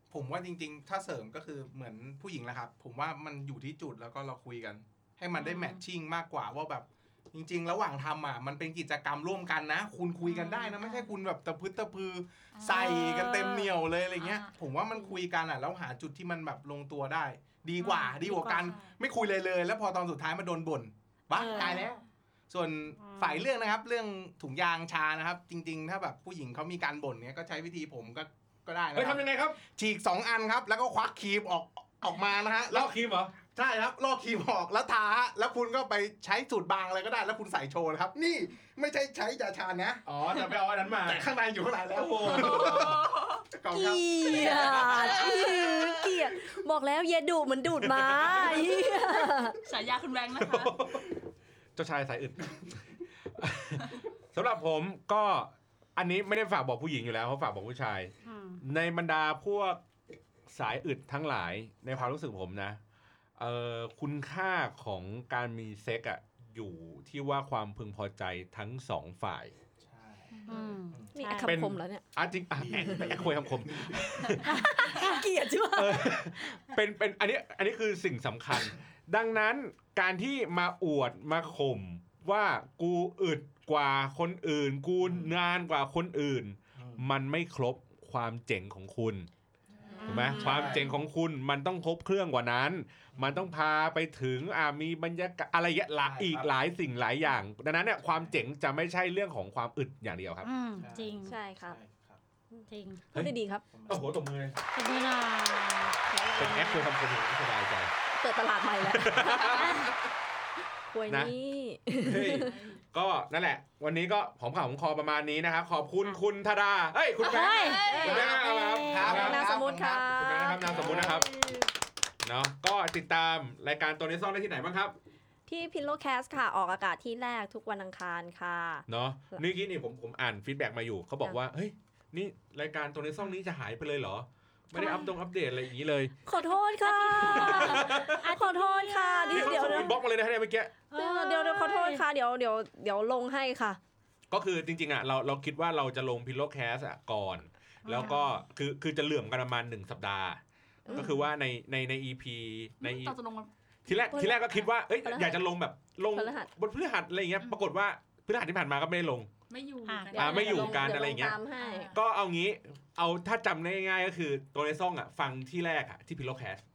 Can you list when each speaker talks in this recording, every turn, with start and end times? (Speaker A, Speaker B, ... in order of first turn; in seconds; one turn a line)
Speaker A: 0.1-32.9
Speaker B: 5.3-5.8
Speaker C: 10.3-11.1
Speaker C: 12.5-13.6
Speaker B: 12.7-13.6
Speaker C: 14.2-14.5
Speaker B: 17.8-18.7
Speaker C: 18.5-18.9
Speaker B: 21.3-21.9
Speaker C: 21.4-21.9
Speaker B: 23.0-23.4
Speaker D: 28.9-29.6
Speaker D: 32.7-33.3
Speaker A: 33.5-40.1
Speaker D: 40.1-41.2
Speaker A: 41.0-45.4
Speaker D: 41.9-43.0
Speaker C: 42.2-43.5
Speaker E: 43.7-49.6
Speaker C: 44.4-46.2
Speaker D: 47.8-48.7
Speaker C: 49.6-50.7
Speaker D: 50.3-51.2
Speaker D: 51.8-59.8
Speaker B: 58.2-58.6
Speaker D: 60.5-62.8
Speaker D: 63.4-69.5
Speaker A: 69.8-70.3
Speaker C: 70.3-70.7
Speaker B: 70.5-71.5
Speaker E: 71.1-72.0
Speaker D: 71.4-74.5
Speaker A: 72.6-74.2
Speaker E: 74.4-76.3
Speaker B: 74.5-75.2
Speaker D: 75.7-89.3
Speaker A: 85.0-85.3
Speaker A: 86.8-87.0
Speaker C: 89.8-90.8
Speaker D: 90.0-100.5
Speaker B: 90.1-90.9
Speaker A: 90.3-90.9
Speaker A: 93.2-93.5
Speaker A: 96.0-96.5
Speaker A: 98.1-98.4
Speaker B: 100.4-101.4
Speaker A: 100.8-102.2
Speaker E: 101.2-101.8
Speaker E: 102.5-103.6
Speaker B: 102.7-103.0
Speaker A: 103.7-104.2
Speaker D: 103.9-104.6
Speaker B: 104.7-106.0
Speaker E: 106.0-106.9
Speaker D: 106.4-107.9
Speaker E: 108.1-109.9
Speaker D: 108.9-109.9
Speaker E: 110.9-112.5
Speaker D: 112.0-121.3
Speaker C: 112.3-112.8
Speaker C: 117.2-118.2
Speaker B: 117.2-119.3
Speaker E: 117.8-121.2
Speaker A: 118.0-121.2
Speaker C: 121.3-121.6
Speaker D: 122.2-125.0
Speaker E: 125.5-129.4
Speaker D: 128.9-136.1
Speaker E: 134.8-135.1
Speaker E: 136.3-139.9
Speaker B: 136.3-140.0
Speaker D: 137.3-138.2
Speaker D: 139.3-140.7
Speaker B: 140.9-142.1
Speaker E: 140.9-143.8
Speaker D: 144.3-150.4
Speaker B: 147.8-148.4
Speaker E: 150.9-151.2
Speaker D: 150.9-153.2
Speaker C: 152.8-153.5
Speaker D: 153.9-159.3
Speaker E: 154.1-155.4
Speaker E: 156.1-156.5
Speaker C: 159.5-161.9
Speaker B: 159.9-160.1
Speaker E: 160.1-161.9
Speaker D: 160.1-161.4
Speaker D: 161.9-166.6